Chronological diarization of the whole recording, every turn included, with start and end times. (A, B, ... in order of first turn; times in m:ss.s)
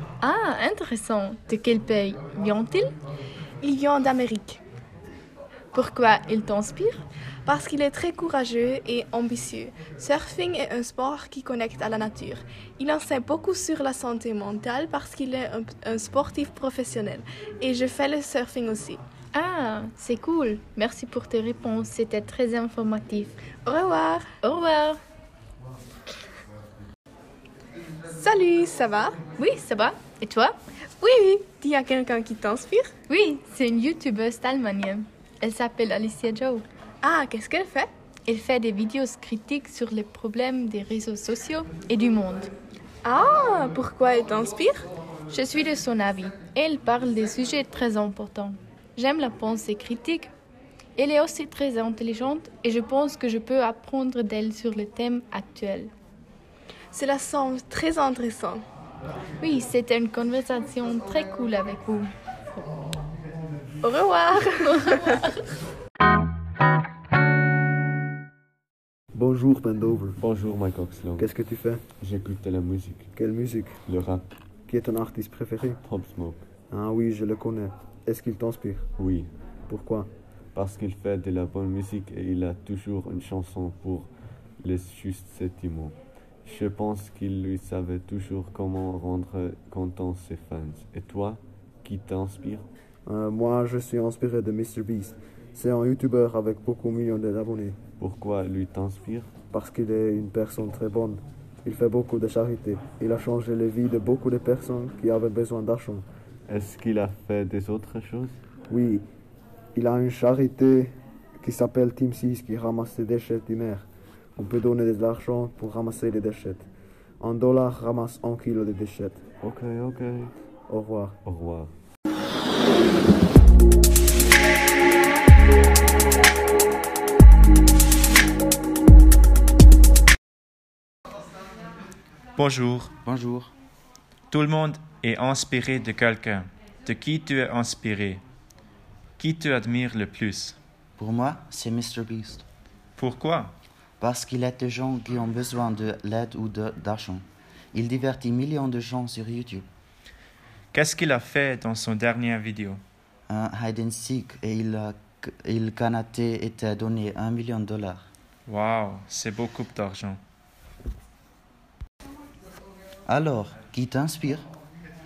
0:00.2-0:02.9 A
0:03.6-0:04.6 B
0:05.7-0:07.0 A
0:07.5-0:19.0 B
0:19.3-0:23.4 A
0:23.6-0:24.3 B
0:24.4-0:25.0 A
0:28.1-0:29.2 B
0:29.4-0:30.6 A
0:31.0-0:32.9 B
0:33.1-0:36.6 A
0:37.0-0:37.9 B
0:38.3-0:42.5 A
0:43.0-0:44.8 B
0:45.3-0:50.3 A
0:51.0-0:55.9 A
0:56.9-0:58.6 B
0:59.4-1:02.1 A
1:03.8-1:05.2 B
1:04.8-1:05.2 A
1:09.1-1:10.2 C
1:10.2-1:11.3 D
1:11.2-1:11.9 C
1:12.0-1:13.1 D
1:13.2-1:13.8 C
1:13.9-1:14.3 D
1:14.7-1:15.8 C
1:15.8-1:16.4 D
1:16.7-1:18.9 C
1:19.0-1:19.3 D
1:19.7-1:20.1 C
1:20.6-1:24.1 D
1:24.6-1:32.7 D
1:33.1-1:37.8 C
1:38.0-1:39.3 D
1:39.5-1:46.1 C
1:46.5-1:48.4 D
1:48.7-1:49.0 C
1:49.8-1:56.7 C
1:57.2-1:59.2 C
1:59.4-2:00.3 D
2:00.7-2:01.2 C
2:01.2-2:01.7 D
2:12.4-2:12.9 E
2:13.0-2:13.5 F
2:14.3-2:18.2 E
2:19.2-2:20.6 E
2:21.0-2:22.4 F
2:23.0-2:23.6 E
2:24.0-2:29.7 F
2:30.7-2:32.8 E
2:33.3-2:38.0 F
2:38.5-2:40.2 E
2:43.1-2:44.5 F